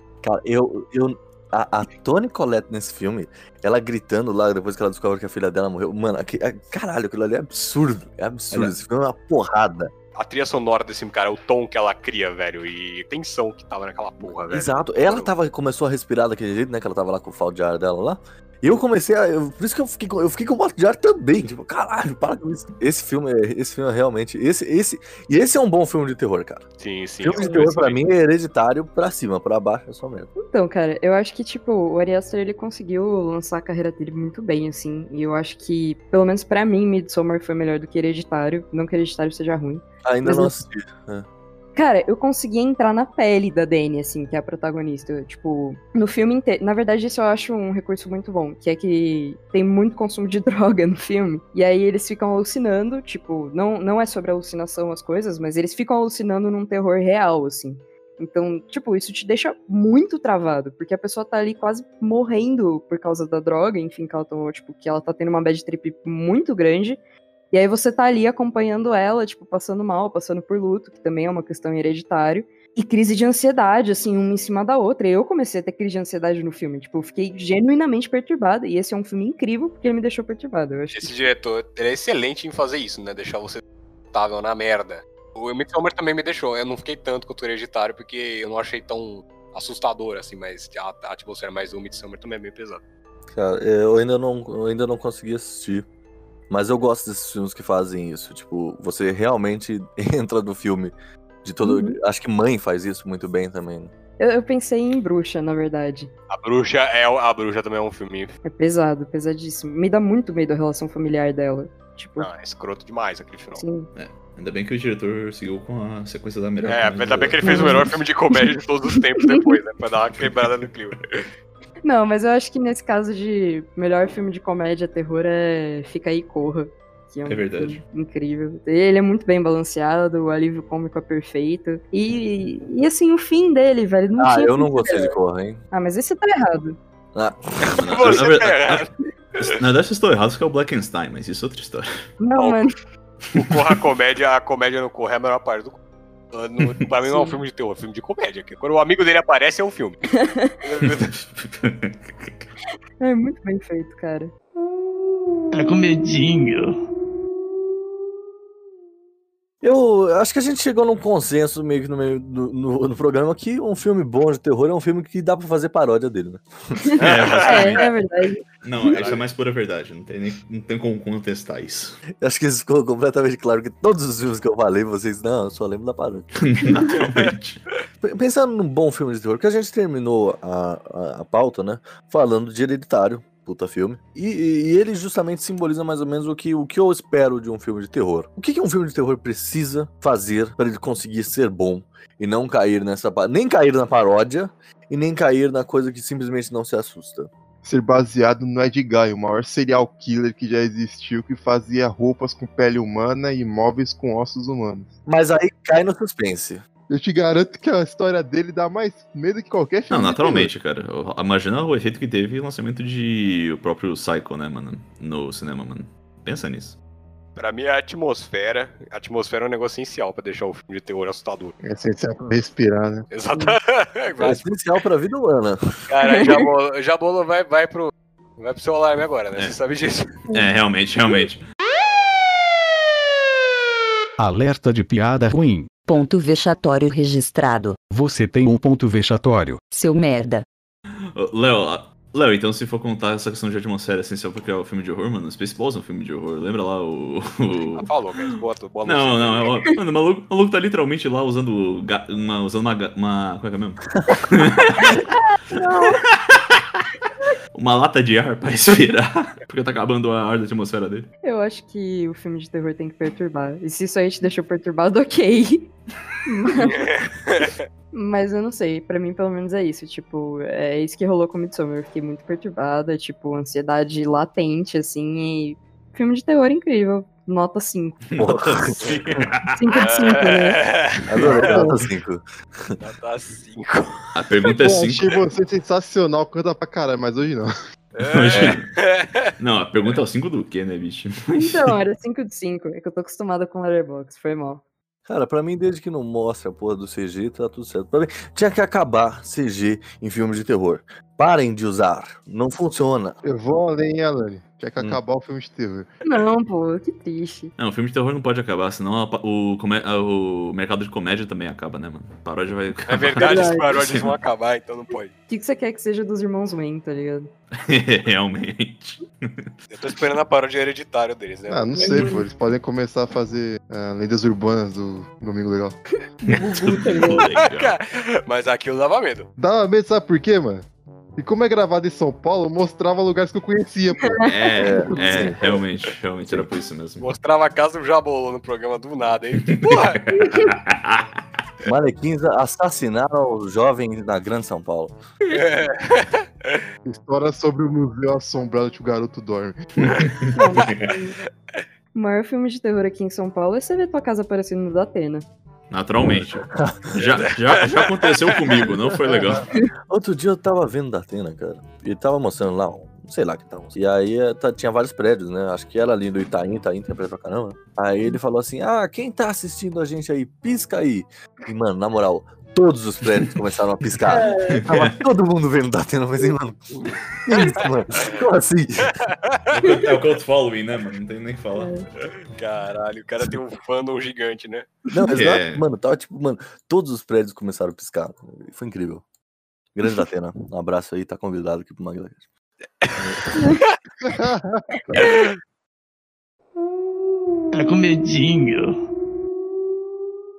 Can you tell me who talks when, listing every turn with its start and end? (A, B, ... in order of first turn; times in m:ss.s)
0:00.2-0:09.9 A
0:10.2-0:15.3 B
0:14.5-0:26.7 A
0:26.8-0:28.0 B
0:27.2-0:30.3 A
0:30.4-0:40.6 C
0:40.0-0:41.3 A
0:41.8-1:07.0 C
1:07.5-1:21.2 C
1:20.9-1:32.8 B
1:33.3-1:35.8 A
1:36.5-1:43.9 A
1:41.6-1:42.0 C
1:44.2-1:46.1 C
1:46.3-1:48.3 B
1:48.4-1:52.3 C
1:52.2-1:53.6 B
1:53.5-1:53.9 C
1:54.0-1:57.9 D
1:56.6-2:01.3 B
1:57.4-1:58.4 C
1:59.2-1:59.5 C
2:00.2-2:00.5 D
2:01.8-2:15.2 C
2:07.3-2:07.8 D
2:14.2-2:15.6 A
2:15.7-2:16.8 C
2:17.2-2:18.1 A
2:17.8-2:18.9 B
2:17.8-2:22.1 D
2:22.2-2:22.8 C
2:23.4-2:25.8 B
2:26.3-2:30.0 B
2:27.1-2:27.4 C
2:30.2-2:30.5 C
2:30.6-2:31.1 B
2:30.8-2:32.5 D
2:33.0-2:34.3 C
2:35.5-2:36.8 E
2:39.6-2:46.4 A
2:47.0-2:47.9 B
2:47.0-2:47.9 D
2:47.4-2:48.4 C
2:48.6-2:52.0 D
2:48.8-2:49.2 B
2:52.2-2:56.3 A
2:56.4-2:57.6 D
2:58.0-3:17.3 A
3:17.6-3:24.9 F
3:25.1-3:26.6 A
3:26.9-3:30.5 F
3:29.9-3:36.8 D
3:37.4-3:41.5 B
3:41.6-3:43.1 F
3:43.1-3:44.4 B
3:44.2-3:45.7 A
3:45.9-3:50.2 B
3:50.3-3:51.4 D
3:54.2-3:55.7 G
3:55.9-3:57.8 H
3:57.9-3:59.6 G
3:59.7-4:00.4 H
4:01.2-4:15.0 D
4:07.8-4:09.7 B
4:15.5-4:16.0 C
4:16.3-4:16.6 D
4:17.5-4:21.1 D
4:21.2-4:25.7 C
4:26.3-4:26.8 C
4:26.6-4:27.6 B
4:27.9-4:38.1 C
4:38.1-4:39.4 D
4:38.2-4:39.2 A
4:38.8-4:39.2 B
4:39.5-4:40.6 C
4:39.7-4:41.6 B
4:41.1-4:42.8 A
4:41.3-4:41.7 F
4:42.8-4:44.1 B
4:44.2-4:45.2 D
4:44.5-4:47.5 F
4:48.0-4:49.3 B
4:48.0-4:48.7 D
4:49.4-4:51.8 D
4:51.4-4:54.6 C
4:55.1-5:03.2 A
5:03.2-5:05.9 F
5:06.0-5:07.5 C
5:07.6-5:14.2 D
5:12.9-5:15.1 B
5:13.2-5:13.7 C
5:15.3-5:17.3 C
5:17.6-5:19.5 D
5:19.7-5:22.1 B
5:21.5-5:25.8 F
5:21.8-5:22.2 C
5:26.2-5:27.3 C
5:26.3-5:27.8 D
5:27.3-5:29.3 B
5:29.4-5:30.7 F
5:31.2-5:34.3 F
5:34.2-5:37.1 D
5:34.6-5:35.6 A
5:37.0-5:40.0 B
5:39.4-5:41.0 D
5:40.2-5:40.5 C
5:41.6-5:45.0 A
5:45.3-5:46.6 B
5:46.9-5:49.6 F
5:49.8-5:50.8 D
5:50.4-5:51.1 C
5:52.0-5:55.2 C
5:55.7-5:59.5 D
5:56.5-5:56.8 A
5:57.2-5:58.6 B
5:59.9-6:19.0 A
6:14.1-6:14.6 C
6:14.5-6:14.9 D
6:17.4-6:18.2 B
6:19.0-6:19.6 B
6:19.5-6:21.7 D
6:21.6-6:21.9 C
6:22.4-6:24.8 B
6:24.9-6:29.0 A
6:25.1-6:25.6 D
6:29.8-6:32.2 A
6:33.0-6:33.4 A
6:34.1-6:35.1 F
6:35.0-6:35.2 B
6:37.5-6:38.8 E